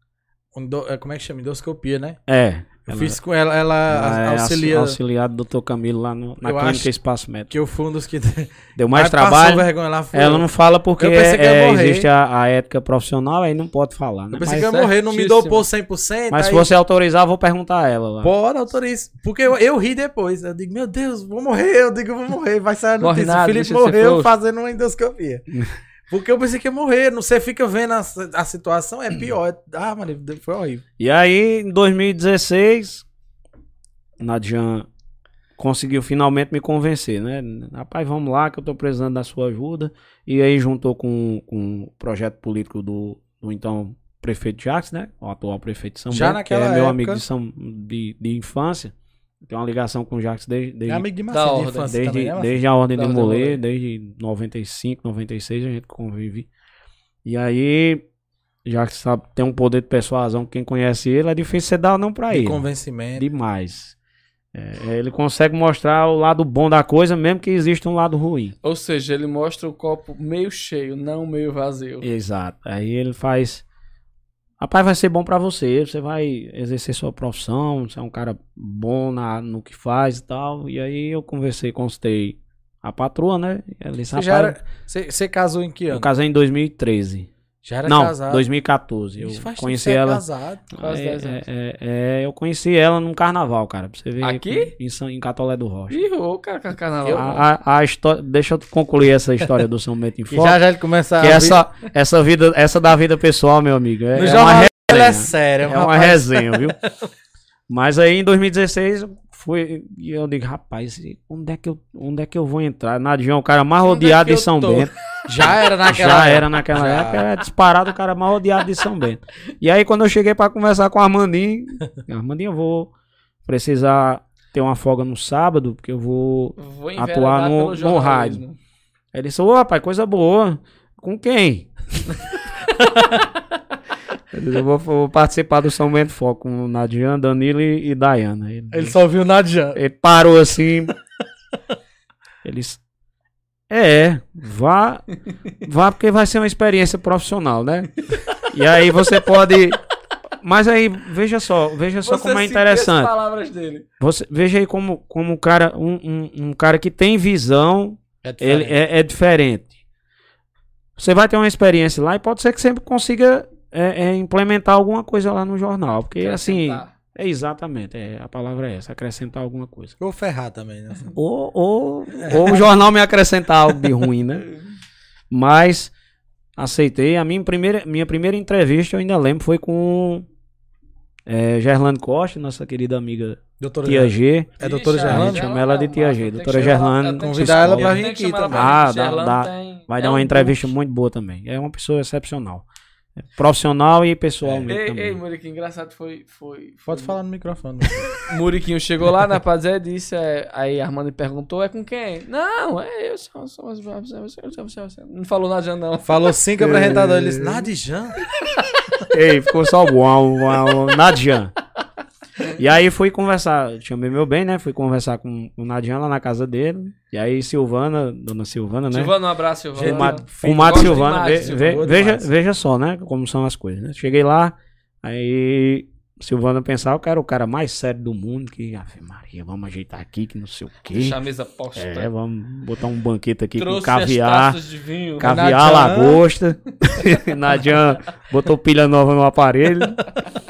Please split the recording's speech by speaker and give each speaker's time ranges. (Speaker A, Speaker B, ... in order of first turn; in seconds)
Speaker A: 0.5-2.2, 2.9-5.0, 6.4-6.9, 7.5-12.1, 14.3-16.7, 18.2-25.5, 26.1-30.8, 46.1-47.2, 50.9-52.6, 62.3-63.2, 84.1-86.1, 87.6-88.4, 89.2-90.7, 97.0-97.3, 100.3-101.7, 104.2-106.7, 115.3-117.2, 138.7-139.8, 158.2-158.7, 170.0-171.1, 172.2-172.7, 183.6-185.4, 186.5-188.7, 194.4-194.7, 196.9-198.2, 206.1-208.2, 219.8-222.3, 235.2-236.2
Speaker B: 2.3-3.2, 3.9-7.5, 8.8-14.9, 16.3-18.3, 31.0-33.0, 34.2-34.9, 35.6-51.0, 51.9-56.5, 57.2-58.0, 58.6-62.6, 63.1-63.9, 64.5-68.5, 72.0-73.6, 74.6-84.5, 85.9-87.3, 87.8-96.0, 97.1-100.6, 101.2-106.8, 107.7-114.9, 115.4-122.9, 123.4-128.4, 129.1-132.2, 134.3-138.9, 139.7-140.9, 142.4-142.8, 143.7-149.8, 150.4-153.1, 154.0-159.7, 161.0-169.9, 171.1-174.5, 175.3-175.9, 176.6-180.3, 181.2-192.6, 193.3-195.2, 206.6-207.7, 209.1-211.5, 212.4-219.1, 219.8-231.2, 231.7-234.6, 235.2-240.1
Speaker C: 15.1-15.6, 23.0-24.3, 51.3-51.9, 52.9-53.6, 68.6-72.0, 90.8-91.4, 94.2-94.7, 95.9-97.4, 113.8-114.9, 126.6-128.6, 152.0-153.8, 166.2-166.9, 184.6-190.7, 194.7-197.2, 198.1-206.3, 208.6-208.8, 218.9-221.8, 230.9-232.1, 233.6-235.4